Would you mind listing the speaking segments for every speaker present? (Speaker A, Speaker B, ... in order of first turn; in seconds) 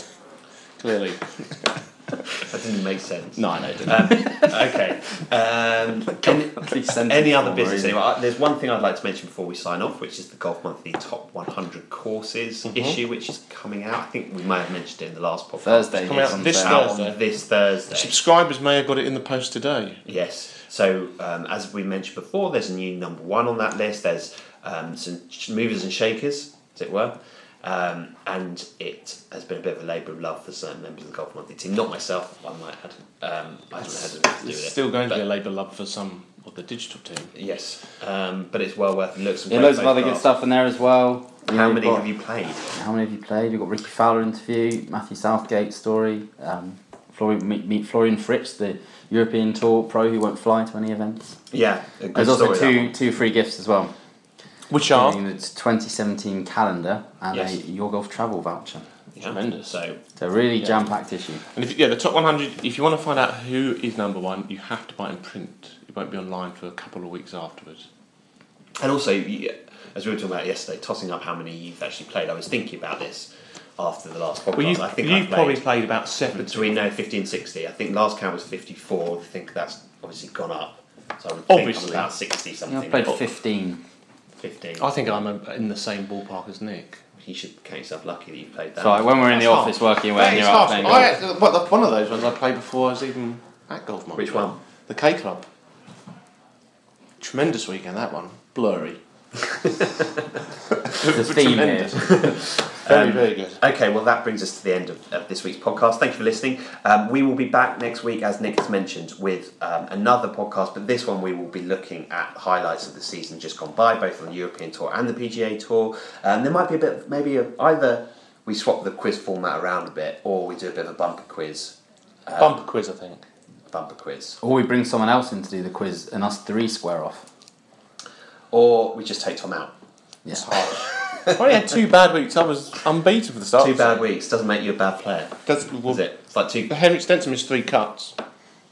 Speaker A: 0.8-2.4, 3.4-4.5, 12.7-13.0, 15.9-17.2, 17.9-20.0, 33.8-37.3, 54.7-55.2, 59.2-59.8, 61.5-67.9, 74.5-76.8, 81.5-82.1, 84.8-87.0, 89.2-95.5, 97.2-99.0, 100.8-103.6, 122.4-123.2, 130.3-134.1, 135.5-136.0, 136.7-138.2
Speaker B: 2.4-18.1, 20.1-35.2, 37.3-40.3, 41.5-42.7, 51.5-53.0, 57.3-57.6, 59.1-60.0, 68.8-75.6, 76.3-83.3, 84.4-84.9, 87.2-89.2, 94.2-94.6, 99.5-100.0, 102.0-122.5, 123.7-124.4, 128.5-129.7, 130.7-131.6, 133.6-136.7
Speaker C: 6.2-8.0, 15.6-16.9, 39.5-42.1, 42.7-51.4, 52.1-53.9, 54.9-58.9, 60.2-61.4, 82.7-83.8, 88.8-91.2, 101.1-102.0, 124.4-127.3